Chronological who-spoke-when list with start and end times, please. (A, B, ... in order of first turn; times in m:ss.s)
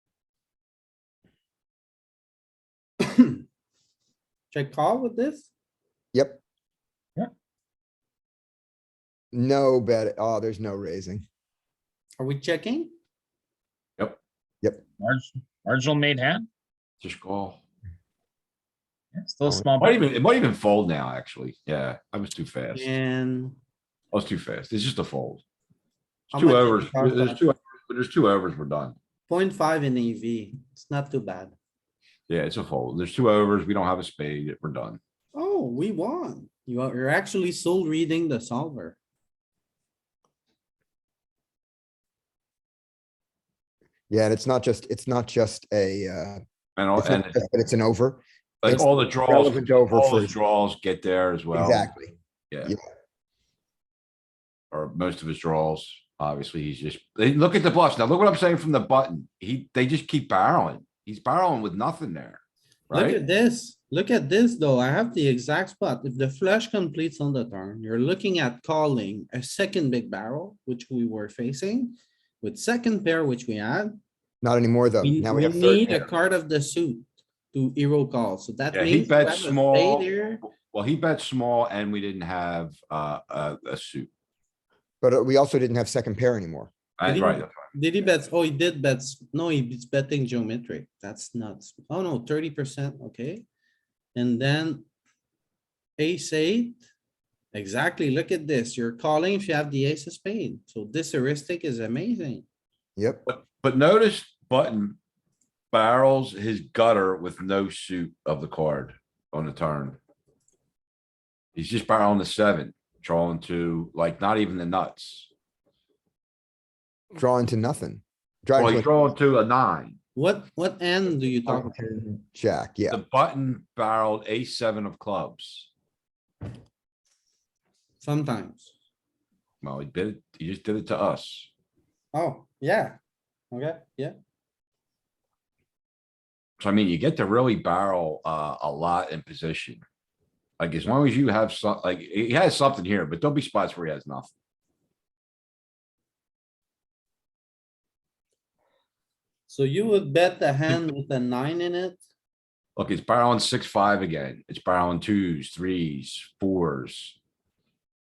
0:03.0-0:03.4 A
0:04.5-0:05.5 A
0:06.1-0:06.4 B
0:09.3-0:11.2 B
0:12.2-0:12.9 A
0:15.0-0:16.5 C
0:17.0-0:17.6 D
0:19.2-0:20.0 C
0:19.8-0:22.9 D
0:22.7-0:23.6 A
0:24.1-0:25.4 D
0:26.3-0:29.0 D
0:26.3-0:27.4 A
0:29.3-0:31.5 A
0:32.3-0:35.0 D
0:35.3-0:39.0 A
0:44.1-0:46.4 B
0:46.8-0:47.4 D
0:47.0-0:50.3 B
0:48.6-0:51.9 D
0:51.5-0:52.1 B
0:54.7-1:03.2 D
1:02.9-1:14.0 A
1:14.4-1:16.1 B
1:15.0-1:20.4 A
1:18.7-1:24.1 D
1:25.0-1:26.7 B
1:27.0-1:27.7 D
1:27.0-1:33.4 A
1:34.1-1:34.8 A
1:36.0-1:36.8 A
1:37.5-1:42.4 A
1:43.0-1:43.2 B
1:43.2-1:45.0 D
1:45.7-1:50.0 D
1:51.5-1:55.3 D
1:57.1-1:58.9 B
1:58.6-2:00.0 D
2:00.2-2:01.8 A
2:01.4-2:03.0 B
2:02.9-2:05.7 D
2:08.0-2:08.7 A
2:09.6-2:11.5 D
2:12.1-2:13.0 A
2:13.5-2:14.1 A
2:16.6-2:19.8 D
2:20.6-2:24.3 D
2:29.5-2:32.0 A
2:32.8-2:37.2 D